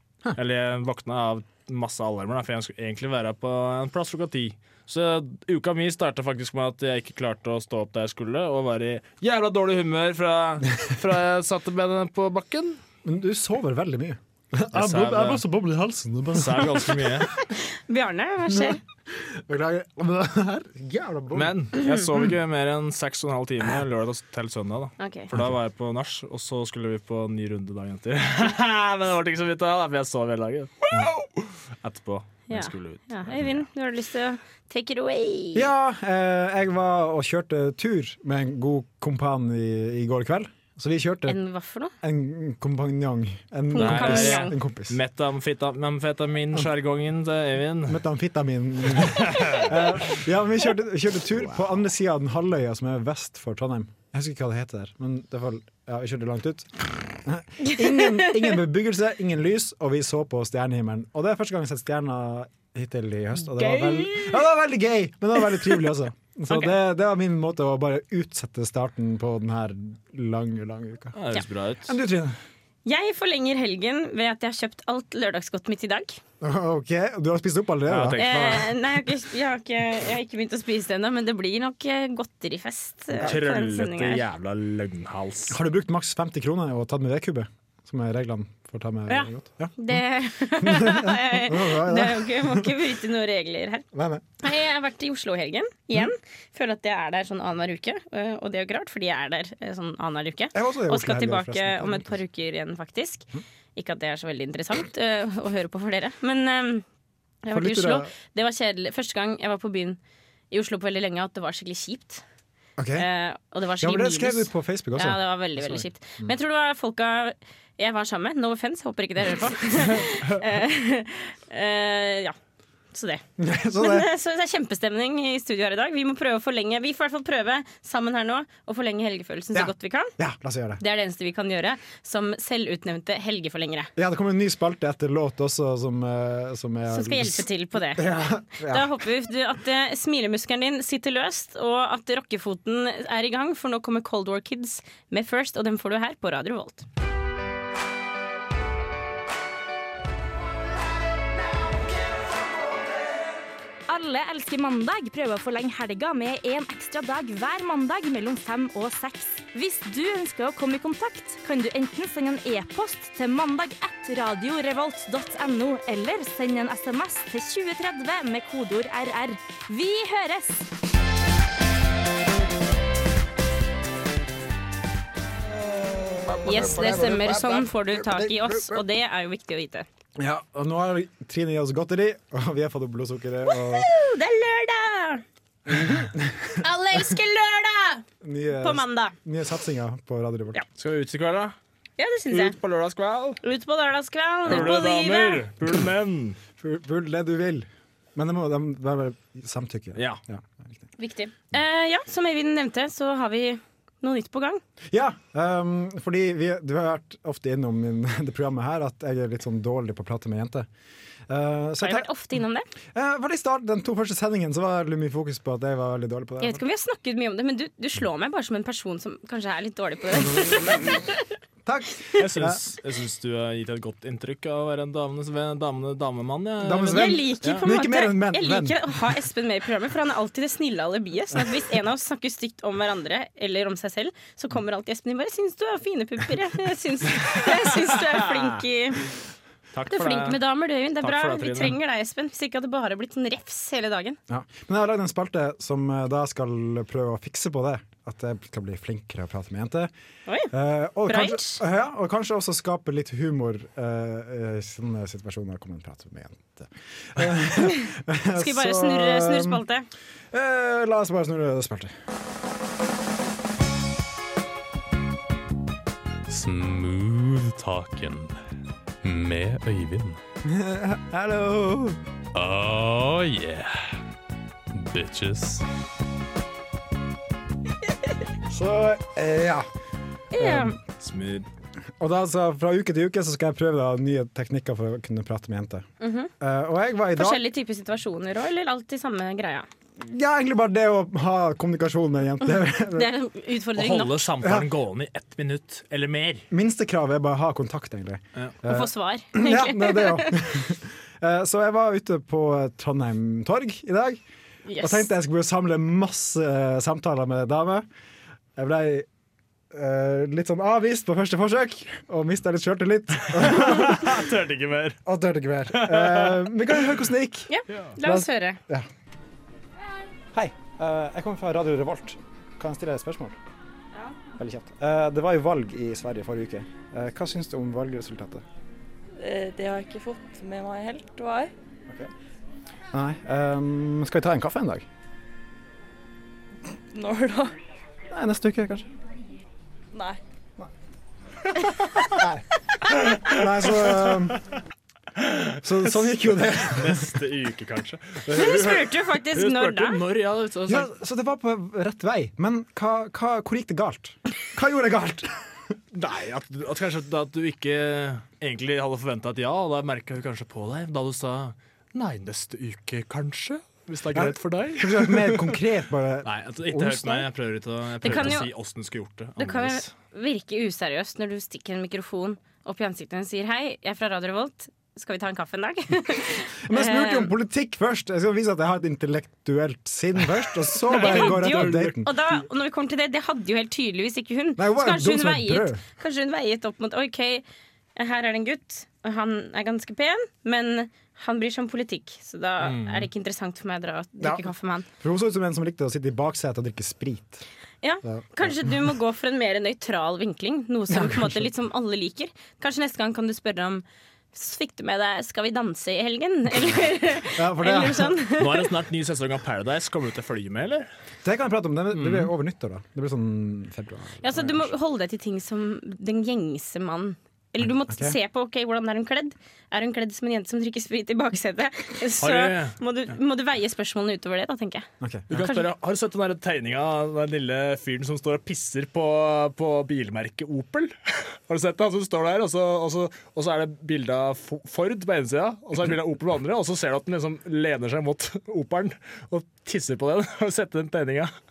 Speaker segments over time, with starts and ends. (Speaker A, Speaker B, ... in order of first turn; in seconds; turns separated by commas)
Speaker A: 0.3-12.8, Speaker B: 13.0-17.3, Speaker A: 14.7-15.4, Speaker A: 16.3-17.3, Speaker C: 17.9-18.8, Speaker B: 18.5-21.6, Speaker A: 21.3-31.3, Speaker C: 25.0-25.3, Speaker A: 31.8-33.6, Speaker C: 32.5-35.6, Speaker B: 35.5-41.4, Speaker C: 41.2-41.9, Speaker B: 42.0-45.0, Speaker C: 43.7-44.5, Speaker A: 43.8-48.0, Speaker B: 47.9-71.2, Speaker A: 49.0-49.7, Speaker C: 57.6-58.5, Speaker C: 63.6-64.2, Speaker A: 71.2-71.9, Speaker B: 71.8-72.4, Speaker C: 72.8-76.2, Speaker B: 76.4-78.6, Speaker A: 77.8-78.7, Speaker C: 78.2-84.2, Speaker A: 83.2-85.6, Speaker B: 85.5-90.0, Speaker C: 89.1-93.8, Speaker B: 90.6-92.8, Speaker B: 93.9-94.2, Speaker C: 94.4-106.8, Speaker B: 100.5-102.1, Speaker C: 107.4-110.0, Speaker B: 107.5-108.1, Speaker C: 110.5-112.2, Speaker B: 112.8-113.1, Speaker C: 113.0-122.3, Speaker B: 113.8-116.3, Speaker C: 122.9-123.2, Speaker B: 123.4-124.1, Speaker C: 123.8-130.1, Speaker B: 129.5-130.8, Speaker C: 130.8-133.9, Speaker B: 133.9-139.0, Speaker C: 136.9-146.8, Speaker D: 153.9-170.7, Speaker C: 176.4-179.8, Speaker B: 176.5-177.2, Speaker B: 180.2-183.9, Speaker C: 183.5-185.2, Speaker B: 185.7-186.6, Speaker C: 186.6-188.0, Speaker B: 188.2-190.6, Speaker C: 188.6-189.1, Speaker A: 190.8-191.5, Speaker C: 192.0-192.6, Speaker A: 192.3-193.4, Speaker C: 193.4-195.4, Speaker A: 194.4-196.4, Speaker B: 196.6-200.7, Speaker A: 199.9-200.2, Speaker C: 201.0-204.6, Speaker B: 204.9-210.7, Speaker B: 211.3-212.1, Speaker C: 211.8-212.7, Speaker B: 212.9-216.6, Speaker C: 216.4-221.2, Speaker B: 220.2-220.9, Speaker B: 221.6-222.6, Speaker A: 222.2-227.6, Speaker B: 226.6-228.9, Speaker C: 226.9-239.1, Speaker A: 237.3-238.5, Speaker A: 239.7-240.4, Speaker C: 239.9-244.2, Speaker A: 241.0-241.8, Speaker B: 244.3-249.9, Speaker B: 250.5-259.6, Speaker C: 251.1-251.6, Speaker C: 257.6-259.9, Speaker B: 260.3-261.9, Speaker E: 266.3-268.4, Speaker E: 269.0-270.2, Speaker B: 270.4-272.0, Speaker E: 272.3-273.7, Speaker E: 274.7-275.6, Speaker B: 278.5-279.7, Speaker C: 280.3-280.8, Speaker B: 280.3-280.8, Speaker A: 281.0-281.5, Speaker B: 282.0-285.9, Speaker C: 286.0-286.3, Speaker B: 286.4-287.4, Speaker C: 287.1-289.7, Speaker B: 290.0-293.1, Speaker C: 292.8-294.3, Speaker A: 293.8-296.4, Speaker B: 294.4-294.7, Speaker B: 296.5-304.2, Speaker C: 298.6-300.5, Speaker C: 304.6-305.1, Speaker B: 304.8-307.9, Speaker B: 308.6-309.1, Speaker B: 309.7-314.2, Speaker A: 313.2-315.0, Speaker B: 315.1-318.9, Speaker A: 315.7-316.5, Speaker C: 317.5-318.6, Speaker B: 320.3-323.4, Speaker B: 324.4-328.4, Speaker F: 329.2-331.5, Speaker B: 332.9-334.9, Speaker F: 336.9-337.6, Speaker B: 338.1-338.9, Speaker F: 339.9-340.2, Speaker B: 342.1-342.4, Speaker B: 343.2-344.4, Speaker B: 345.6-347.2, Speaker A: 346.6-350.9, Speaker C: 348.3-350.0, Speaker B: 350.7-355.4, Speaker A: 355.9-365.6, Speaker B: 364.1-367.2, Speaker A: 366.2-369.9, Speaker C: 368.0-368.5, Speaker B: 368.1-368.4, Speaker C: 369.4-377.3, Speaker B: 376.6-382.1, Speaker A: 380.9-381.9, Speaker C: 380.9-387.4, Speaker B: 384.6-385.8, Speaker C: 387.9-394.9, Speaker A: 392.6-393.1, Speaker B: 394.2-397.4, Speaker C: 397.8-408.6, Speaker B: 398.0-398.7, Speaker B: 400.9-401.5, Speaker B: 407.2-408.2, Speaker A: 408.4-410.9, Speaker B: 411.2-414.7, Speaker A: 412.0-412.3, Speaker C: 414.2-425.6, Speaker B: 417.6-418.1, Speaker A: 422.2-422.8, Speaker B: 425.0-425.3, Speaker A: 425.3-441.3